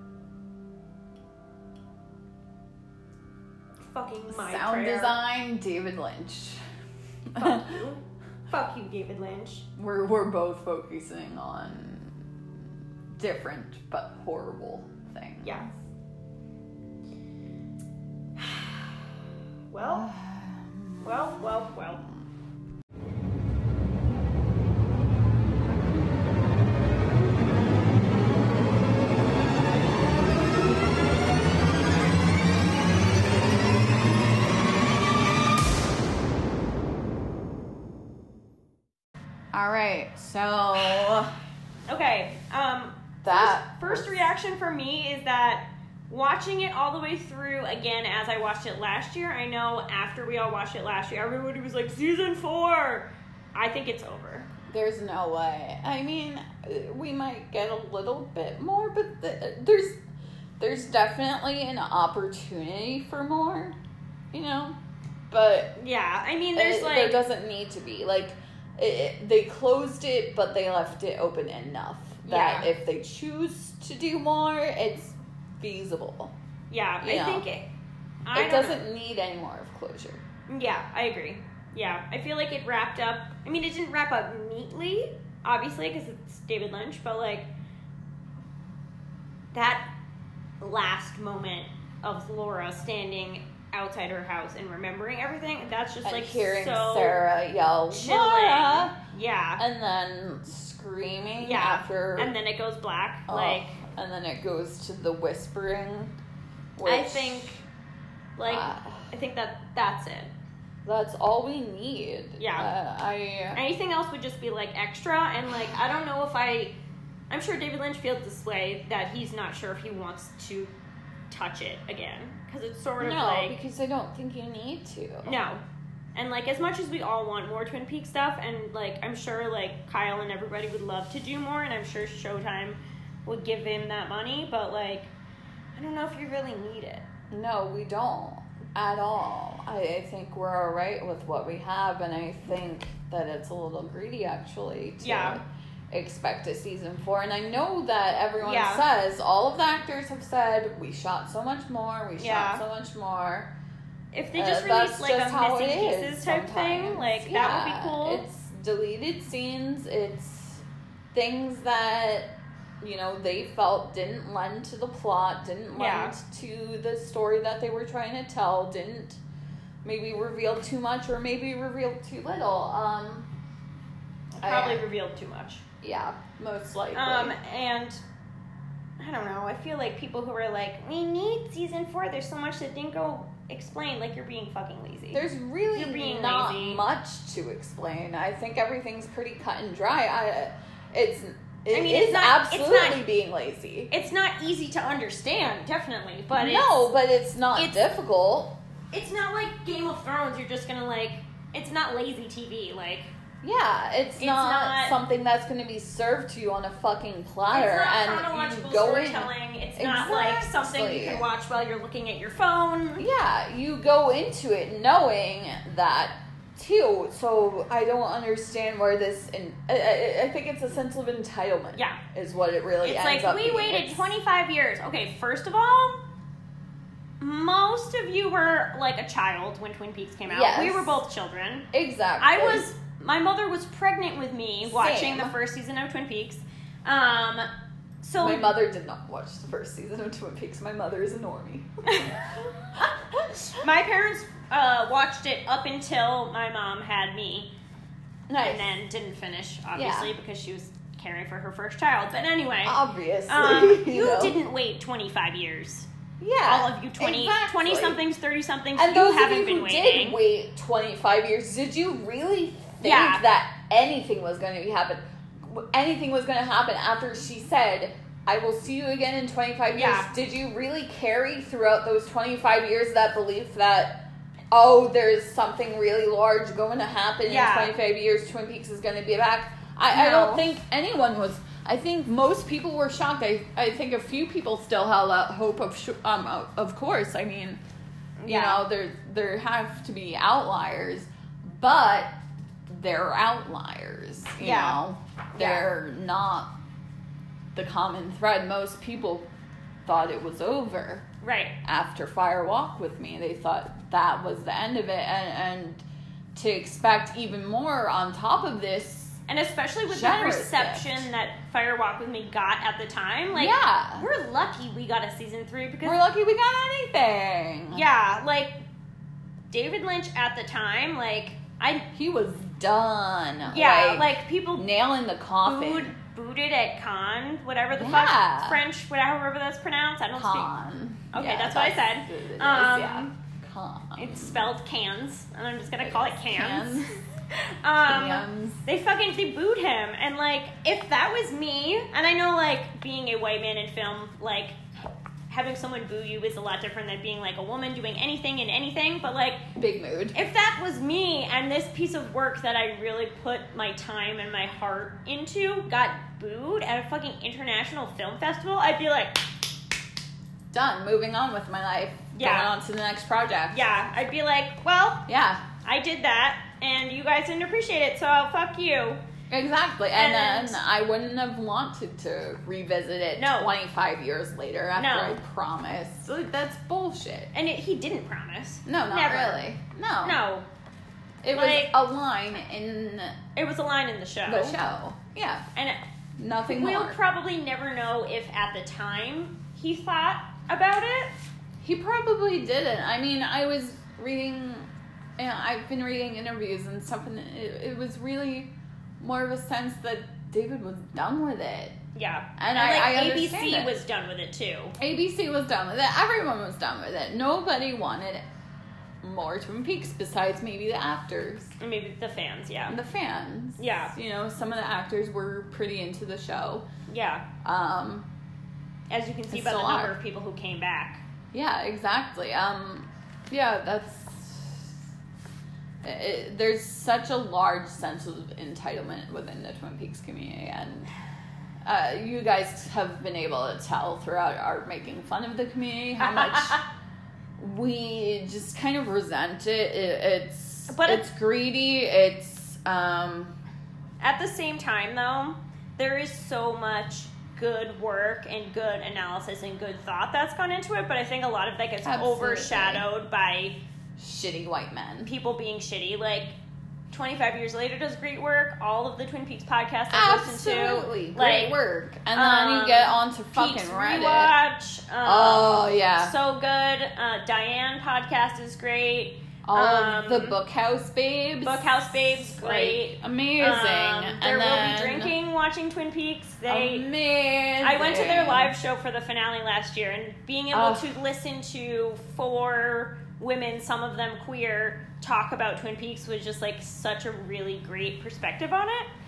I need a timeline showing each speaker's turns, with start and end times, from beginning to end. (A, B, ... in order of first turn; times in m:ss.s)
0:03.8-0:05.2 A
0:04.3-0:06.6 B
0:07.3-0:07.8 B
0:07.4-0:09.7 A
0:09.8-0:12.2 B
0:13.1-0:15.8 B
0:19.7-0:20.1 A
0:19.9-0:22.2 B
0:21.0-0:22.0 A
0:39.5-0:41.4 B
0:41.9-0:54.5 A
0:43.2-0:44.3 B
0:54.7-1:00.0 B
1:00.6-1:03.8 B
1:04.3-1:04.8 B
1:05.3-1:05.8 B
1:05.8-1:07.2 A
1:06.6-1:16.4 B
1:12.2-1:12.7 A
1:16.7-1:17.7 A
1:17.0-1:17.5 B
1:18.2-1:18.8 A
1:18.3-1:20.2 B
1:20.5-1:27.5 A
1:29.5-1:29.9 A
1:30.6-1:37.2 A
1:36.0-1:39.0 B
1:37.9-1:39.6 A
1:39.6-1:42.3 B
1:41.4-1:43.8 A
1:43.3-1:46.1 B
1:46.8-1:47.6 B
1:46.8-1:47.6 A
1:48.4-1:50.3 A
1:48.4-1:49.1 B
1:50.8-1:53.6 B
1:52.4-1:52.7 A
1:53.5-1:56.8 A
1:57.3-2:00.7 A
2:01.3-2:03.6 A
2:03.0-2:05.4 B
2:05.2-2:05.6 A
2:06.2-2:15.1 A
2:15.8-2:17.0 A
2:17.3-2:33.5 B
2:25.0-2:25.4 A
2:28.4-2:28.9 A
2:32.2-2:32.6 A
2:34.1-2:38.2 A
2:34.4-2:49.2 B
2:45.7-2:46.1 A
2:49.8-2:53.3 B
2:54.3-2:55.6 A
2:54.4-2:54.8 B
2:55.8-2:57.4 B
2:56.9-2:58.0 A
2:59.0-3:06.8 A
3:05.1-3:13.9 B
3:11.7-3:13.0 A
3:13.9-3:16.8 A
3:16.3-3:18.6 B
3:18.9-3:23.1 A
3:23.4-3:31.2 B
3:24.2-3:25.0 A
3:27.5-3:33.1 A
3:33.0-3:44.1 B
3:41.8-3:42.0 A
3:42.8-3:46.0 A
3:47.2-3:51.7 A
3:50.3-3:51.0 B
3:51.7-3:52.7 B
3:52.2-3:57.5 A
3:54.7-3:55.4 B
3:58.0-3:58.6 A
3:58.2-4:03.5 B
4:01.9-4:02.2 A
4:03.6-4:07.5 A
4:08.3-4:08.7 B
4:08.4-4:15.9 A
4:09.8-4:10.1 B
4:12.6-4:14.4 B
4:16.2-4:18.0 B
4:16.5-4:20.2 A
4:18.8-4:47.6 B
4:22.8-4:23.2 A
4:29.7-4:30.1 A
4:37.2-4:37.7 A
4:39.9-4:40.5 A
4:48.2-4:48.6 A
4:48.3-4:52.1 B
4:52.7-4:56.5 B
4:54.4-4:54.8 A
4:55.3-4:55.7 A
4:57.5-4:59.3 B
4:59.9-5:01.1 B
5:01.2-5:01.6 A
5:01.6-5:05.8 B
5:06.4-5:09.2 B
5:09.3-5:16.0 A
5:09.9-5:11.1 B
5:13.3-5:14.1 B
5:15.8-5:17.8 B
5:17.7-5:18.6 A
5:19.5-5:21.9 A
5:21.9-5:26.0 B
5:23.5-5:24.7 A
5:25.4-5:30.5 A
5:27.7-5:28.6 B
5:30.1-5:34.5 B
5:31.1-5:33.1 A
5:34.0-5:44.6 A
5:35.8-5:36.9 B
5:37.9-5:38.6 B
5:45.3-5:49.5 A
5:49.6-5:50.2 B
5:50.1-5:59.3 A
6:00.5-6:03.7 B
6:02.1-6:02.5 A
6:03.5-6:05.1 A
6:05.1-6:05.5 B
6:05.6-6:09.0 A
6:09.3-6:17.3 B
6:09.9-6:10.6 A
6:13.2-6:13.5 A
6:14.8-6:15.2 A
6:17.3-6:19.5 A
6:18.6-6:20.2 B
6:20.0-6:20.5 A
6:21.2-6:23.2 B
6:21.3-6:21.8 A
6:23.4-6:24.6 A
6:24.3-6:25.5 B
6:25.6-6:25.8 A
6:26.2-6:27.0 B
6:26.4-6:31.2 A
6:31.6-6:41.8 B
6:42.0-6:44.8 A
6:42.4-6:43.8 B
6:44.8-6:48.3 B
6:49.0-6:51.5 B
6:51.6-6:52.8 A
6:52.7-6:56.7 B
6:53.6-6:53.9 A
6:56.9-6:57.3 A
6:57.4-6:58.1 B
6:58.9-7:01.0 A
6:59.3-7:00.0 B
7:01.3-7:04.8 B
7:05.8-7:10.9 B
7:11.6-7:16.6 B
7:16.0-7:16.6 A
7:17.4-7:23.4 B
7:20.7-7:21.1 A
7:24.0-7:33.6 A
7:31.8-7:32.9 B
7:34.0-7:35.1 B
7:35.0-7:36.4 A
7:36.9-7:41.6 A
7:39.9-7:44.4 B
7:42.1-7:50.4 A
7:45.0-7:46.1 B
7:49.4-7:55.2 B
7:51.4-7:56.9 A
7:56.5-7:58.5 B
7:57.6-8:08.9 A
8:00.5-8:00.9 B